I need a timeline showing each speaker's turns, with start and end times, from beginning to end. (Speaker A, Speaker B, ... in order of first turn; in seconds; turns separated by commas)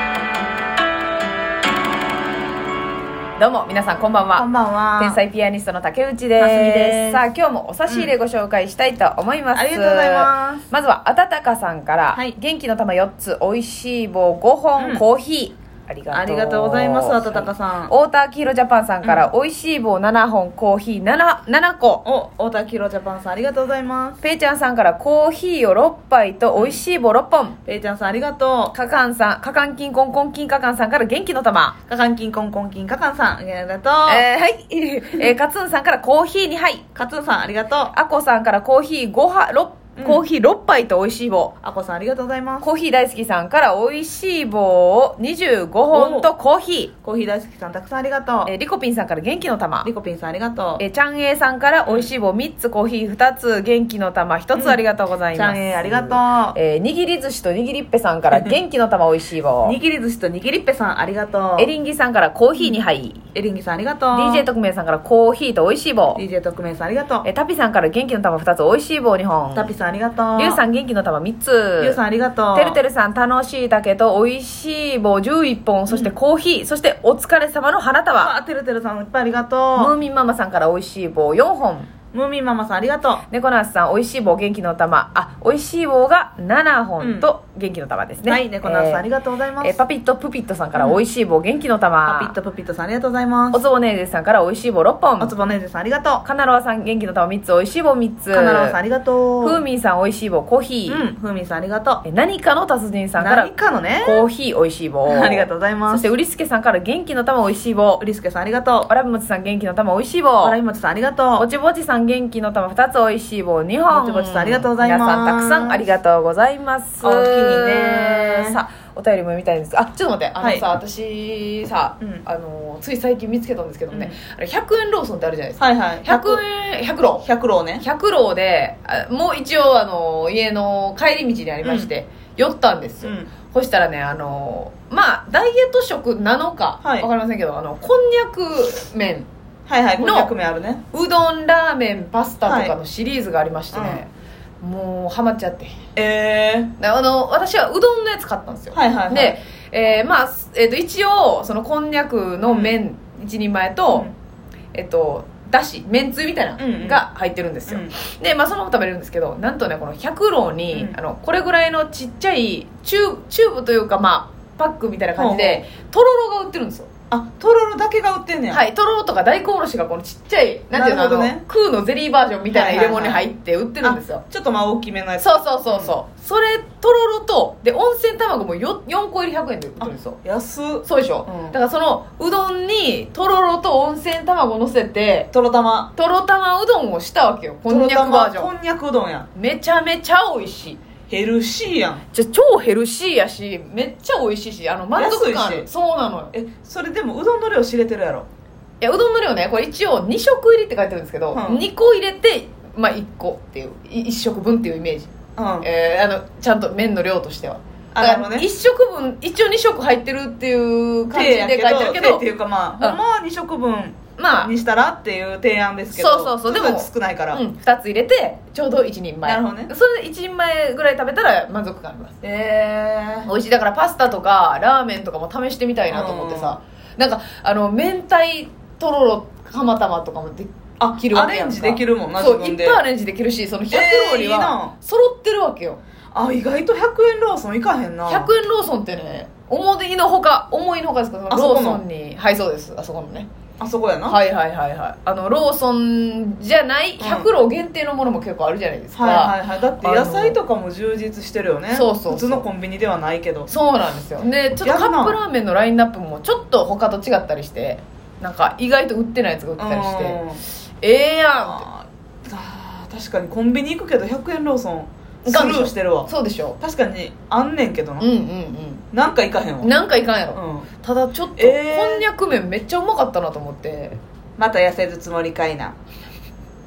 Speaker A: 3.4-4.5, Speaker B: 4.3-5.2, Speaker A: 5.0-22.0, Speaker B: 6.4-7.2, Speaker B: 7.9-8.1, Speaker B: 9.5-10.6, Speaker B: 14.8-15.0, Speaker B: 16.1-17.9, Speaker B: 22.0-24.2, Speaker A: 24.2-27.6, Speaker B: 27.6-28.7, Speaker A: 28.7-31.8, Speaker B: 31.9-34.2, Speaker A: 34.1-36.9, Speaker B: 36.9-37.9, Speaker A: 37.9-41.5, Speaker B: 40.0-40.2, Speaker B: 41.6-42.6, Speaker A: 42.6-46.9, Speaker B: 45.9-46.3, Speaker B: 47.0-48.5, Speaker A: 48.5-49.9, Speaker B: 49.8-50.8, Speaker A: 50.8-59.8, Speaker B: 54.5-54.8, Speaker B: 55.3-56.5, Speaker B: 58.3-58.5, Speaker B: 59.6-61.7, Speaker A: 61.6-63.2, Speaker B: 63.3-64.5, Speaker A: 64.1-66.2, Speaker B: 66.2-67.2, Speaker A: 67.2-69.7, Speaker B: 69.5-70.6, Speaker A: 70.4-72.0, Speaker B: 71.8-72.8, Speaker A: 72.5-78.3, Speaker B: 75.9-76.1, Speaker B: 78.2-79.9, Speaker A: 79.8-81.9, Speaker B: 82.1-83.2, Speaker A: 83.3-89.0, Speaker B: 87.0-87.3, Speaker B: 88.2-89.8, Speaker A: 89.6-92.3, Speaker B: 92.0-93.6, Speaker A: 93.5-95.3, Speaker B: 95.2-96.2, Speaker A: 96.2-98.8, Speaker B: 98.3-99.6, Speaker A: 99.4-101.0, Speaker B: 100.9-102.0, Speaker A: 102.0-108.0, Speaker B: 103.2-104.2, Speaker B: 105.1-106.1, Speaker B: 108.0-108.9, Speaker A: 108.9-110.6, Speaker B: 110.4-111.5, Speaker A: 111.4-127.2, Speaker B: 113.9-115.8, Speaker B: 117.0-118.6, Speaker B: 120.4-120.6, Speaker B: 123.9-124.2, Speaker B: 125.6-126.4, Speaker B: 127.2-127.8, Speaker A: 127.8-139.3, Speaker B: 131.6-131.9, Speaker B: 133.0-133.3, Speaker B: 136.8-137.1, Speaker B: 139.7-140.8, Speaker A: 140.0-140.3, Speaker A: 140.9-144.1, Speaker B: 142.4-142.7, Speaker B: 143.7-144.0, Speaker A: 144.6-145.8, Speaker B: 145.9-146.7, Speaker A: 146.8-154.1, Speaker B: 148.7-149.4, Speaker B: 152.5-152.8, Speaker A: 154.7-166.9, Speaker B: 156.6-157.0, Speaker B: 157.7-157.9, Speaker B: 165.2-165.6, Speaker B: 167.1-168.6, Speaker A: 168.5-174.2, Speaker B: 170.7-171.4, Speaker B: 172.5-173.2, Speaker B: 173.8-175.9, Speaker A: 175.2-180.2, Speaker B: 179.8-181.6, Speaker A: 180.8-185.3, Speaker B: 185.3-185.9, Speaker A: 185.9-188.5, Speaker B: 187.7-189.3, Speaker A: 189.3-190.8, Speaker B: 191.1-192.0, Speaker A: 192.1-196.3, Speaker B: 194.9-195.7, Speaker B: 196.3-198.3, Speaker A: 198.8-212.2, Speaker B: 201.3-201.6, Speaker B: 205.3-205.7, Speaker B: 207.9-208.5, Speaker B: 211.1-217.4, Speaker A: 214.2-214.5, Speaker A: 215.9-222.2, Speaker B: 219.2-219.7, Speaker B: 222.2-223.3, Speaker A: 223.2-235.8, Speaker B: 225.9-226.6, Speaker B: 230.8-232.8, Speaker B: 233.7-234.7, Speaker B: 236.1-238.3, Speaker A: 238.1-243.3, Speaker B: 241.3-241.8, Speaker B: 243.6-244.2, Speaker A: 244.1-250.4, Speaker B: 247.0-247.3, Speaker B: 248.9-253.5, Speaker A: 251.7-252.4, Speaker A: 253.5-260.2, Speaker B: 254.6-255.2, Speaker B: 259.6-260.4, Speaker A: 260.8-261.6, Speaker B: 261.4-268.1, Speaker A: 265.2-266.6, Speaker A: 268.0-268.8, Speaker B: 268.9-269.7, Speaker A: 269.6-274.0, Speaker B: 270.3-270.7, Speaker B: 271.4-272.1, Speaker B: 274.4-275.7